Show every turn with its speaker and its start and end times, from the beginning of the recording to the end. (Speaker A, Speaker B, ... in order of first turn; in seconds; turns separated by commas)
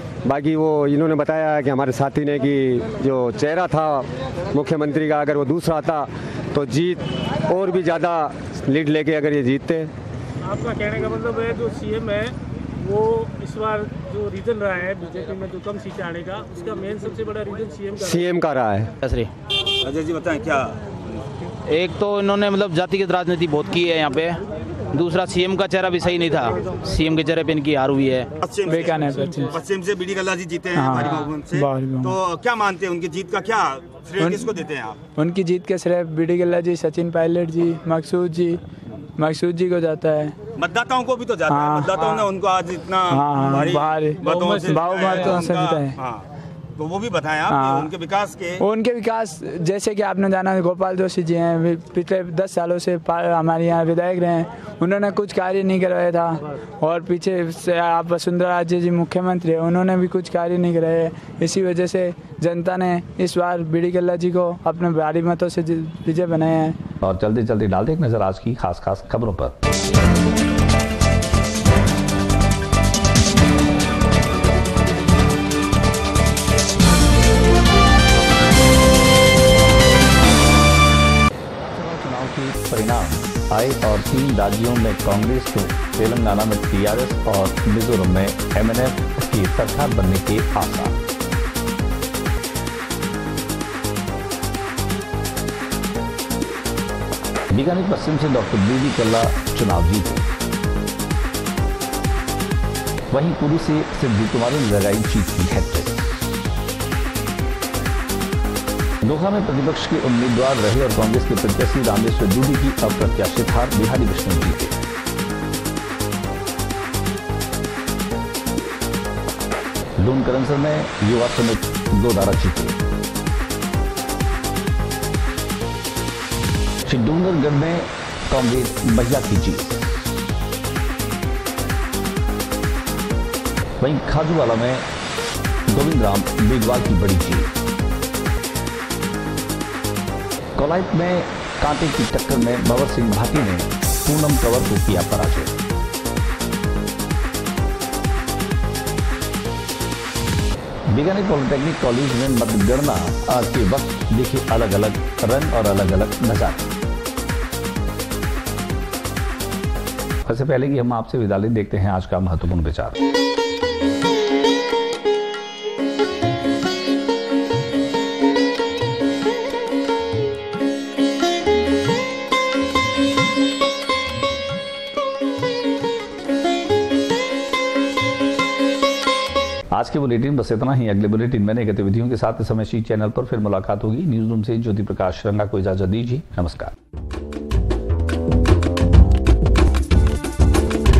Speaker A: 0.2-9.9, Speaker B: 10.4-17.9, Speaker A: 17.9-18.9, Speaker C: 19.0-19.3, Speaker D: 19.8-20.8, Speaker C: 21.7-24.4, Speaker C: 24.9-28.3, Speaker D: 28.4-35.0, Speaker E: 28.7-29.5, Speaker E: 30.8-32.1, Speaker E: 34.2-34.5, Speaker E: 35.2-38.6, Speaker E: 39.2-40.4, Speaker D: 40.6-46.2, Speaker E: 41.5-42.1, Speaker E: 43.1-46.0, Speaker D: 46.8-48.6, Speaker E: 47.5-47.9, Speaker E: 48.6-66.8, Speaker F: 67.0-69.5, Speaker F: 81.5-91.0, Speaker F: 97.5-100.2, Speaker F: 103.1-106.0, Speaker F: 109.0-114.8, Speaker F: 120.0-122.7, Speaker F: 126.8-129.8, Speaker F: 133.8-134.8, Speaker F: 135.7-137.5, Speaker F: 140.6-145.6, Speaker F: 150.9-156.7, Speaker F: 160.2-163.0, Speaker F: 179.7-186.7